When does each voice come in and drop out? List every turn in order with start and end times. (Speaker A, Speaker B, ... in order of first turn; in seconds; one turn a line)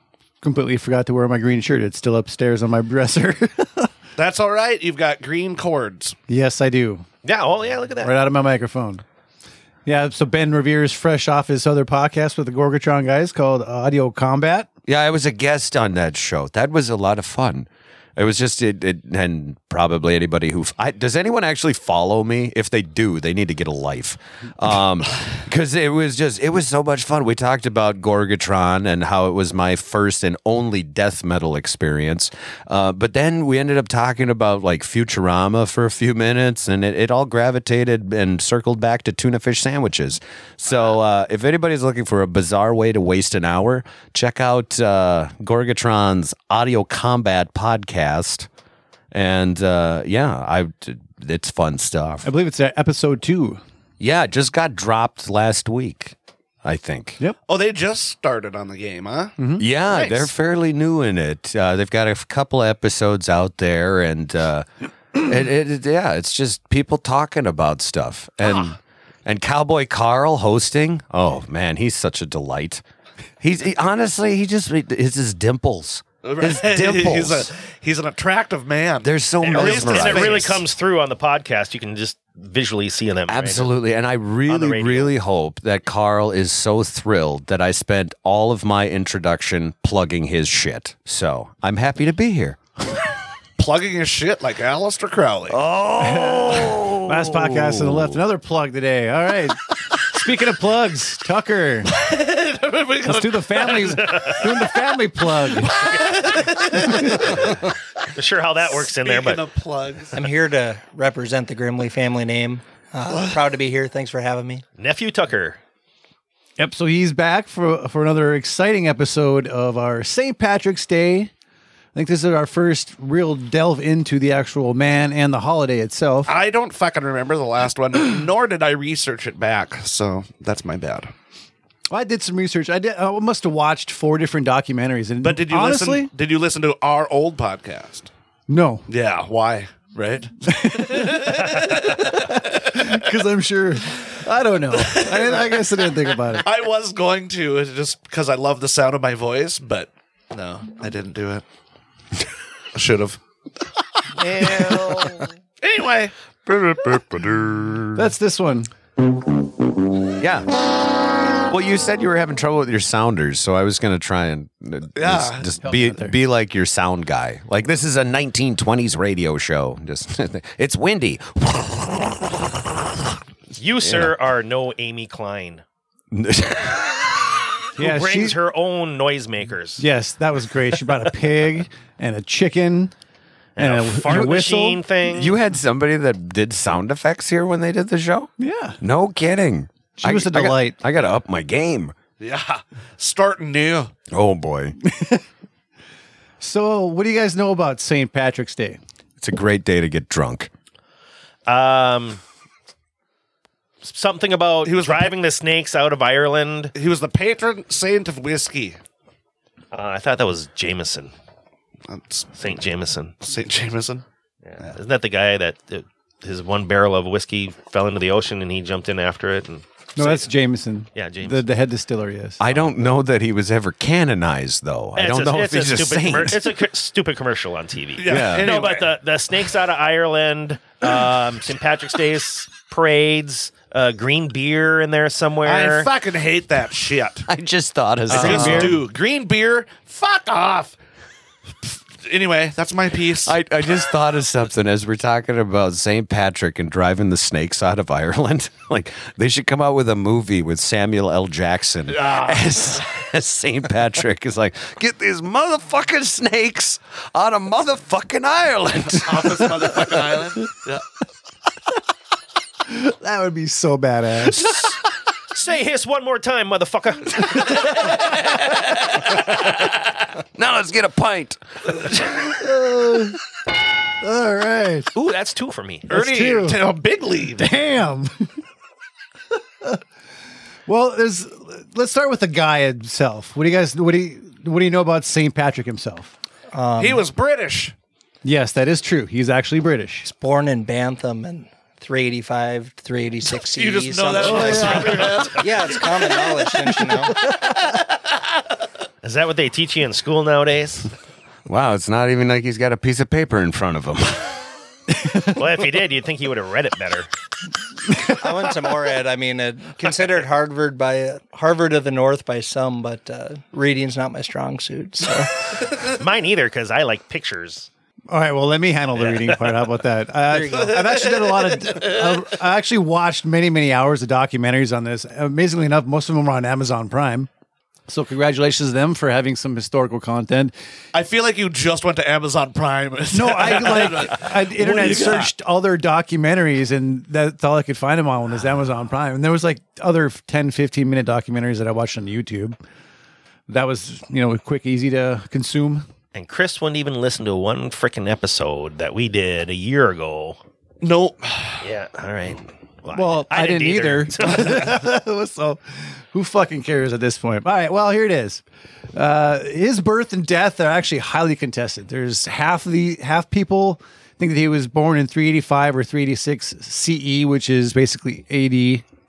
Speaker A: 0.4-3.9
Speaker B: 4.2-6.2
Speaker A: 6.3-7.1
Speaker C: 7.2-8.1
Speaker A: 8.0-9.0
Speaker A: 9.9-14.7
Speaker D: 14.9-48.5
Speaker D: 49.1-52.3
Speaker A: 52.2-53.6
Speaker D: 54.0-57.2
Speaker B: 57.5-60.3
Speaker A: 59.4-59.7
Speaker D: 59.6-72.8
Speaker D: 73.4-77.5
Speaker B: 76.2-80.6
Speaker D: 79.0-80.6
Speaker C: 79.4-83.7
Speaker D: 83.3-92.6
Speaker C: 84.5-85.1
Speaker B: 93.6-95.6
Speaker D: 95.5-98.2
Speaker A: 96.0-101.9
Speaker B: 101.9-104.2
Speaker A: 103.0-105.7
Speaker C: 104.0-104.4
Speaker B: 105.6-107.7
Speaker C: 105.9-106.4
Speaker C: 108.1-109.5
Speaker B: 108.8-110.3
Speaker E: 110.1-114.6
Speaker B: 113.1-113.4
Speaker C: 114.8-115.6
Speaker A: 116.6-121.3
Speaker A: 122.0-126.3
Speaker B: 126.3-131.1
Speaker A: 131.9-136.1
Speaker B: 135.2-138.1
Speaker A: 138.5-138.8
Speaker B: 138.9-143.1
Speaker A: 140.5-146.5
Speaker B: 144.7-151.4
Speaker B: 152.7-153.2
Speaker B: 154.2-155.1
Speaker C: 154.4-154.8
Speaker D: 154.6-155.0
Speaker B: 155.6-156.1
Speaker D: 156.5-157.9
Speaker A: 157.9-158.7
Speaker D: 160.1-160.7
Speaker D: 161.3-172.4
Speaker B: 165.0-165.5
Speaker A: 165.6-166.2
Speaker C: 173.6-175.6
Speaker D: 173.8-174.1
Speaker D: 176.1-177.4
Speaker A: 177.8-178.4
Speaker C: 177.8-179.8
Speaker A: 179.8-182.9
Speaker C: 183.6-185.3
Speaker A: 183.6-184.8
Speaker D: 184.1-184.4
Speaker D: 185.0-191.9
Speaker A: 188.4-188.8
Speaker A: 190.0-190.8
Speaker B: 192.2-193.9
Speaker D: 194.1-194.8
Speaker A: 194.8-195.2
Speaker A: 196.4-198.8
Speaker D: 199.2-200.5
Speaker C: 201.5-202.2
Speaker C: 203.8-206.7
Speaker B: 204.7-205.1
Speaker B: 206.8-208.8
Speaker C: 209.7-211.1
Speaker B: 211.9-212.4
Speaker C: 212.4-213.1
Speaker B: 213.2-214.0
Speaker C: 214.5-220.3
Speaker A: 220.0-222.4
Speaker C: 221.0-221.4
Speaker D: 222.4-226.5
Speaker C: 225.0-235.9
Speaker B: 228.0-229.0
Speaker D: 228.0-228.6
Speaker B: 235.4-237.3
Speaker D: 237.3-238.8
Speaker A: 238.1-238.8
Speaker B: 238.1-240.8
Speaker B: 241.6-243.3
Speaker D: 243.2-259.9
Speaker B: 251.9-252.8
Speaker B: 259.0-260.8
Speaker A: 262.7-264.5
Speaker C: 264.3-264.8
Speaker C: 265.3-269.2
Speaker D: 268.2-269.6
Speaker D: 270.4-272.4
Speaker A: 272.2-273.2
Speaker A: 274.0-274.9
Speaker C: 274.9-275.9
Speaker A: 275.9-276.6
Speaker B: 275.9-277.5
Speaker A: 277.4-278.3
Speaker A: 280.7-286.1
Speaker E: 286.5-287.0
Speaker B: 286.8-287.7
Speaker A: 288.2-290.1
Speaker E: 290.0-297.2
Speaker B: 293.3-296.3
Speaker A: 294.2-295.1
Speaker A: 297.3-297.6
Speaker C: 299.0-300.9
Speaker D: 301.5-304.4
Speaker A: 305.0-305.3
Speaker C: 305.3-307.1
Speaker E: 307.9-315.7
Speaker C: 316.0-317.7
Speaker A: 318.1-327.3
Speaker C: 319.0-319.5
Speaker E: 320.3-320.8
Speaker B: 320.7-321.9
Speaker A: 327.9-330.5
Speaker B: 330.9-335.3
Speaker A: 333.1-342.6
Speaker A: 343.5-345.9
Speaker C: 346.1-350.4
Speaker B: 350.8-351.6
Speaker C: 351.6-354.7
Speaker A: 352.9-358.4
Speaker A: 358.9-368.8